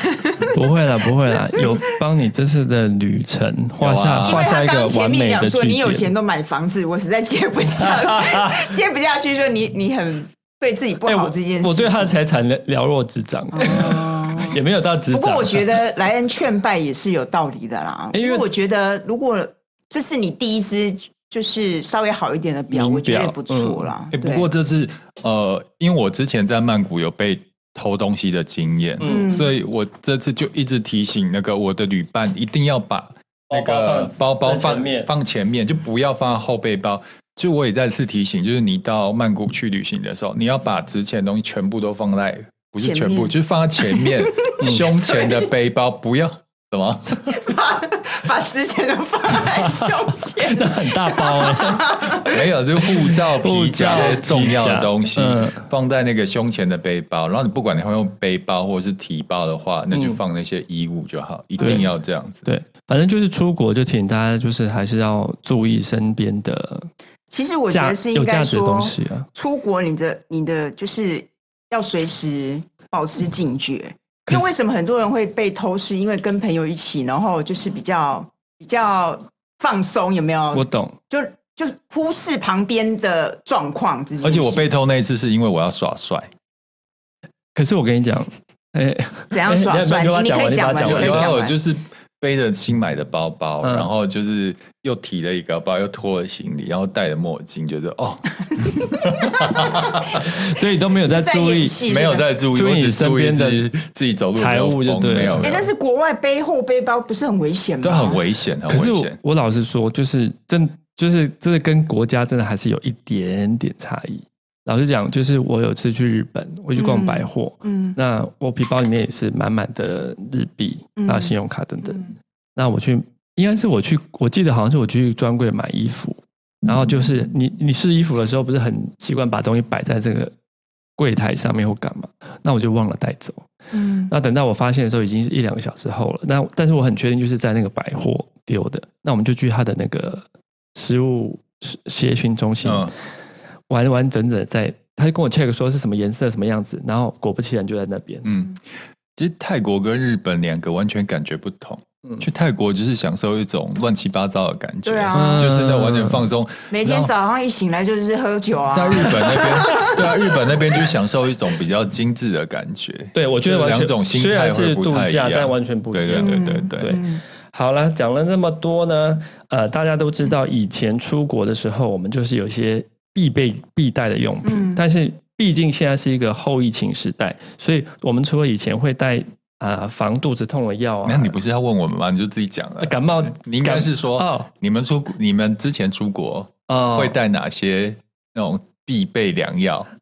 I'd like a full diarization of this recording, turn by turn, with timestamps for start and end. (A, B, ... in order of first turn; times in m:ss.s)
0:00.5-0:06.1 A
0:03.8-0:04.4 B
0:04.2-0:12.2 C
0:07.8-0:08.7 A
0:11.0-0:15.8 A
0:13.5-0:14.6 C
0:15.1-0:24.5 C
0:18.1-0:18.5 A
0:22.7-0:23.9 A
0:24.1-0:47.3 B
0:29.0-0:29.4 A
0:29.0-0:29.5 C
0:33.5-0:35.1 A
0:42.8-0:45.5 C
0:44.6-0:44.9 A
0:47.3-0:52.4 C
0:49.3-0:52.3 A
0:52.2-1:02.5 B
0:52.8-0:55.6 A
0:59.9-1:00.2 A
1:01.6-1:01.8 C
1:01.6-1:01.9 A
1:02.5-1:06.9 A
1:07.3-1:24.6 C
1:07.7-1:09.3 A
1:20.5-1:21.0 A
1:24.2-1:26.3 B
1:27.6-1:31.3 A
1:29.3-1:31.6 C
1:30.8-1:40.3 B
1:33.6-1:33.9 A
1:40.1-1:41.8 A
1:41.0-1:42.3 C
1:41.9-1:45.7 B
1:42.5-1:43.7 A
1:44.4-1:45.6 A
1:45.4-1:48.2 C
1:47.8-1:49.2 B
1:48.7-2:10.3 A
1:56.8-1:58.0 C
2:01.0-2:01.3 C
2:11.0-2:13.5 A
2:13.7-2:14.1 C
2:14.1-2:22.9 A
2:22.6-2:22.9 B
2:23.7-2:28.3 A
2:28.2-2:28.6 B
2:29.2-2:37.1 B
2:34.8-2:35.5 C
2:35.1-2:36.3 A
2:36.7-2:40.0 C
2:38.7-2:47.0 B
2:39.4-2:39.9 A
2:43.2-3:01.4 A
2:46.2-2:47.2 C
2:54.4-2:54.8 C
3:01.0-3:09.9 B
3:02.8-3:04.5 A
3:06.7-3:07.2 A